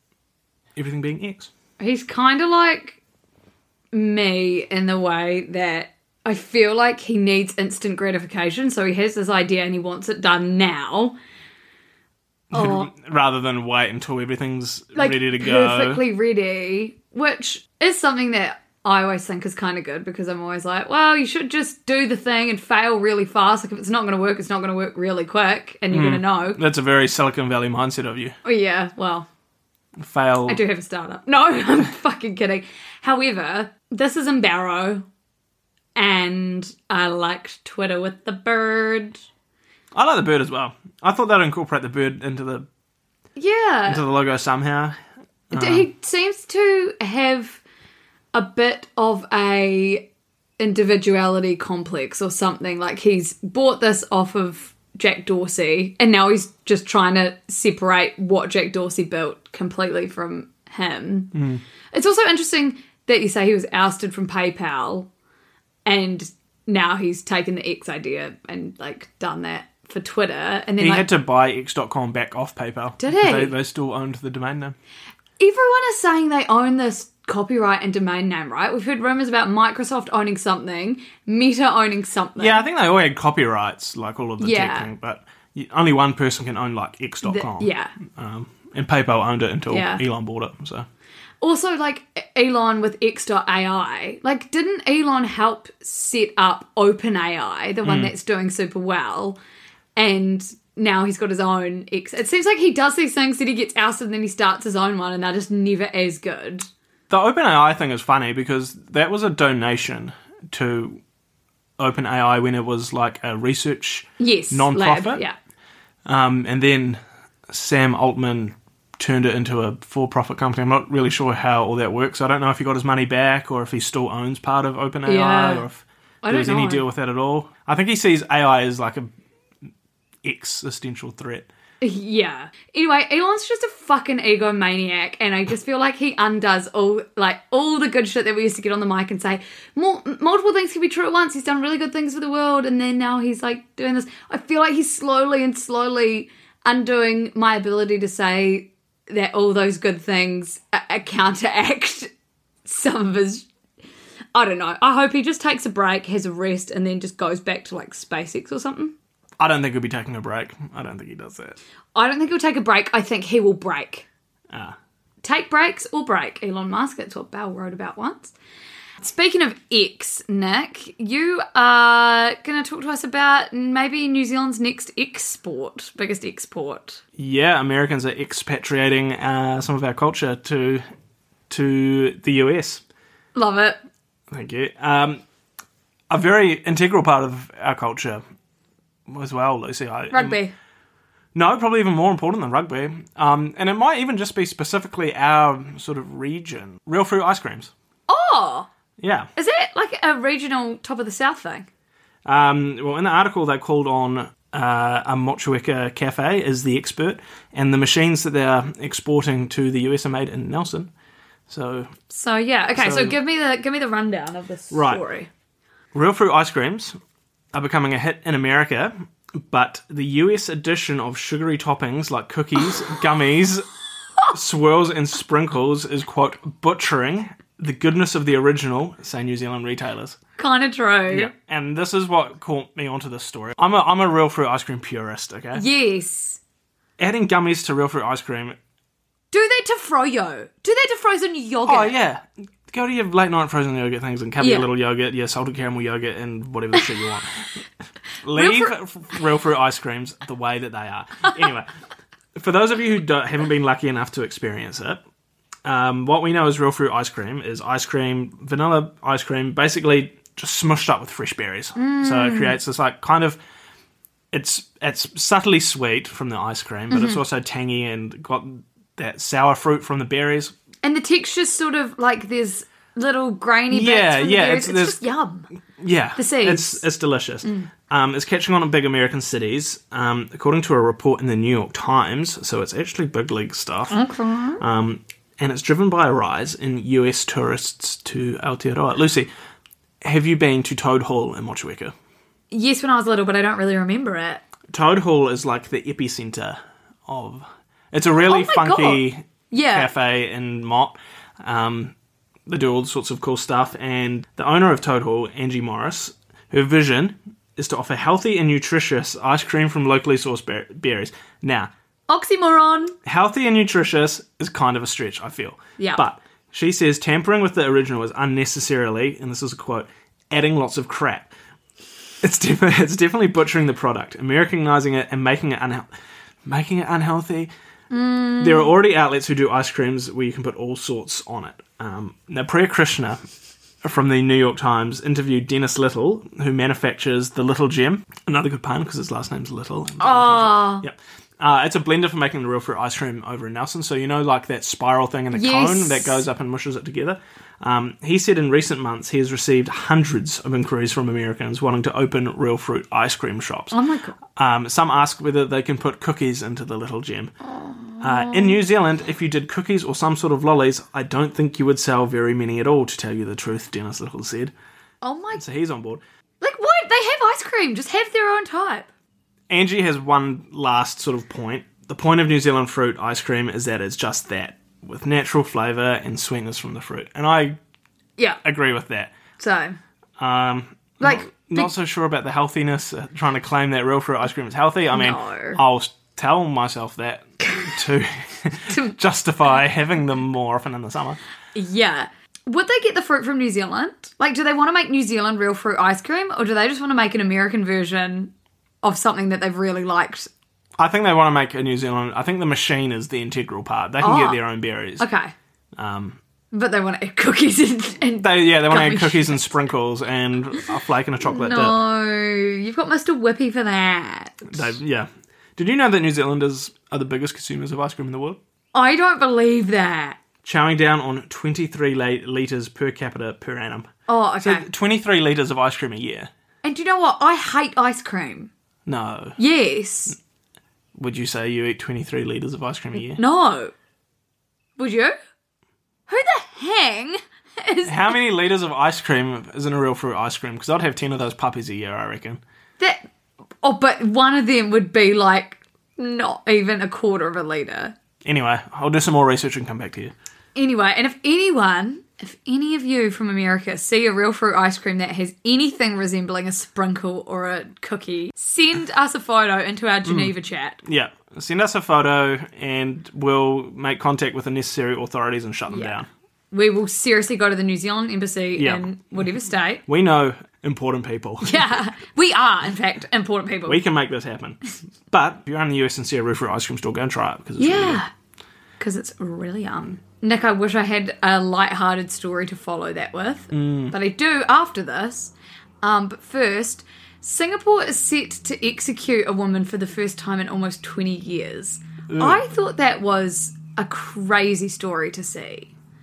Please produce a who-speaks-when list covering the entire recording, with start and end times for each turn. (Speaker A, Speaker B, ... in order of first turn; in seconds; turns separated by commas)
Speaker A: 0.8-1.5, Speaker B: 1.8-3.0, Speaker B: 3.9-11.2, Speaker A: 12.5-16.0, Speaker B: 12.5-12.9, Speaker B: 14.9-26.6, Speaker A: 25.9-28.4, Speaker B: 28.4-29.3, Speaker A: 30.0-30.6, Speaker B: 30.5-35.0, Speaker B: 36.0-39.2, Speaker A: 39.9-42.7, Speaker B: 43.4-44.0, Speaker A: 43.9-45.0, Speaker A: 45.5-45.9, Speaker B: 45.5-47.6, Speaker B: 48.3-50.0, Speaker B: 50.6-61.3, Speaker A: 61.3-61.6, Speaker B: 61.9-65.1, Speaker B: 65.8-71.1, Speaker A: 70.8-74.8, Speaker B: 73.0-73.5, Speaker B: 75.4-82.6, Speaker A: 82.4-90.9, Speaker B: 84.4-84.9, Speaker B: 87.2-87.9, Speaker B: 89.7-90.0, Speaker B: 91.4-99.4, Speaker A: 97.8-98.1, Speaker B: 100.0-106.7, Speaker A: 107.1-111.0, Speaker A: 111.8-115.2, Speaker B: 114.2-115.3, Speaker A: 116.0-129.1, Speaker B: 125.0-125.6, Speaker B: 126.2-126.8, Speaker A: 130.2-131.5, Speaker B: 131.8-152.1, Speaker B: 152.6-153.5, Speaker B: 154.3-158.9, Speaker A: 159.4-161.6, Speaker B: 161.9-164.0, Speaker B: 165.2-168.3, Speaker B: 169.0-177.0, Speaker A: 177.2-180.8, Speaker A: 181.5-182.8, Speaker B: 183.3-183.8, Speaker A: 184.3-185.2, Speaker A: 186.1-188.2, Speaker A: 189.1-190.4, Speaker B: 190.1-190.5, Speaker A: 191.3-197.7, Speaker B: 198.1-198.7, Speaker A: 199.0-199.3, Speaker B: 199.3-201.7, Speaker A: 202.2-210.9, Speaker A: 211.5-211.9, Speaker B: 212.1-215.3, Speaker A: 212.7-213.2, Speaker A: 214.7-215.0, Speaker A: 215.9-217.0, Speaker A: 217.5-223.7, Speaker A: 224.3-230.2, Speaker B: 230.4-231.3, Speaker A: 231.1-235.6, Speaker B: 235.5-236.4, Speaker A: 237.0-238.6, Speaker B: 239.3-241.9, Speaker A: 241.6-247.4, Speaker B: 244.4-244.7, Speaker A: 248.2-251.7, Speaker B: 248.3-248.7, Speaker A: 252.3-255.0, Speaker A: 255.6-263.4, Speaker B: 261.8-262.6, Speaker A: 264.3-270.5, Speaker B: 266.9-267.2, Speaker B: 270.8-275.5, Speaker A: 273.7-275.0, Speaker A: 275.8-284.0, Speaker B: 276.2-276.8, Speaker B: 277.4-277.7, Speaker B: 283.9-284.6, Speaker A: 284.6-289.3, Speaker A: 290.0-291.9, Speaker B: 292.5-294.4, Speaker A: 294.7-301.9, Speaker B: 298.2-299.9, Speaker A: 302.5-311.7, Speaker B: 312.1-312.9, Speaker A: 313.0-321.3, Speaker A: 322.2-325.9, Speaker A: 326.4-327.5, Speaker B: 327.9-328.7, Speaker A: 328.4-333.2, Speaker A: 333.8-353.8, Speaker B: 340.0-340.8, Speaker B: 345.3-346.2, Speaker B: 353.7-354.1, Speaker A: 354.4-357.3, Speaker B: 357.4-358.6, Speaker A: 358.0-364.5, Speaker B: 365.0-365.4, Speaker A: 365.3-366.0, Speaker B: 366.4-368.9, Speaker A: 369.5-377.6, Speaker A: 378.4-379.1, Speaker B: 379.4-379.8, Speaker A: 380.2-391.2, Speaker B: 381.0-381.7, Speaker B: 384.9-385.6, Speaker B: 388.7-388.9, Speaker B: 391.5-398.3, Speaker B: 398.8-400.3, Speaker A: 400.8-405.1, Speaker B: 404.0-404.4, Speaker B: 405.0-405.3, Speaker A: 405.8-406.2, Speaker B: 406.5-409.5, Speaker A: 408.2-411.8, Speaker B: 411.2-414.7, Speaker A: 414.5-418.4, Speaker B: 418.7-420.2, Speaker A: 420.4-423.9, Speaker B: 424.1-424.6, Speaker A: 424.4-426.3, Speaker B: 426.6-428.5, Speaker A: 428.9-429.4, Speaker B: 429.4-430.1, Speaker A: 430.9-433.2, Speaker B: 433.1-433.7, Speaker B: 434.8-435.1, Speaker B: 436.1-438.1, Speaker A: 437.9-442.4, Speaker B: 442.8-443.1, Speaker B: 443.6-447.9, Speaker A: 448.2-450.1, Speaker B: 450.6-460.8, Speaker A: 460.0-460.3, Speaker A: 460.8-466.1, Speaker B: 465.7-466.0, Speaker B: 466.5-469.8, Speaker A: 468.6-468.9, Speaker A: 469.9-471.6, Speaker B: 471.4-473.8, Speaker A: 473.7-478.0, Speaker B: 477.6-478.1, Speaker B: 478.8-495.7, Speaker A: 483.5-483.9, Speaker A: 492.1-492.4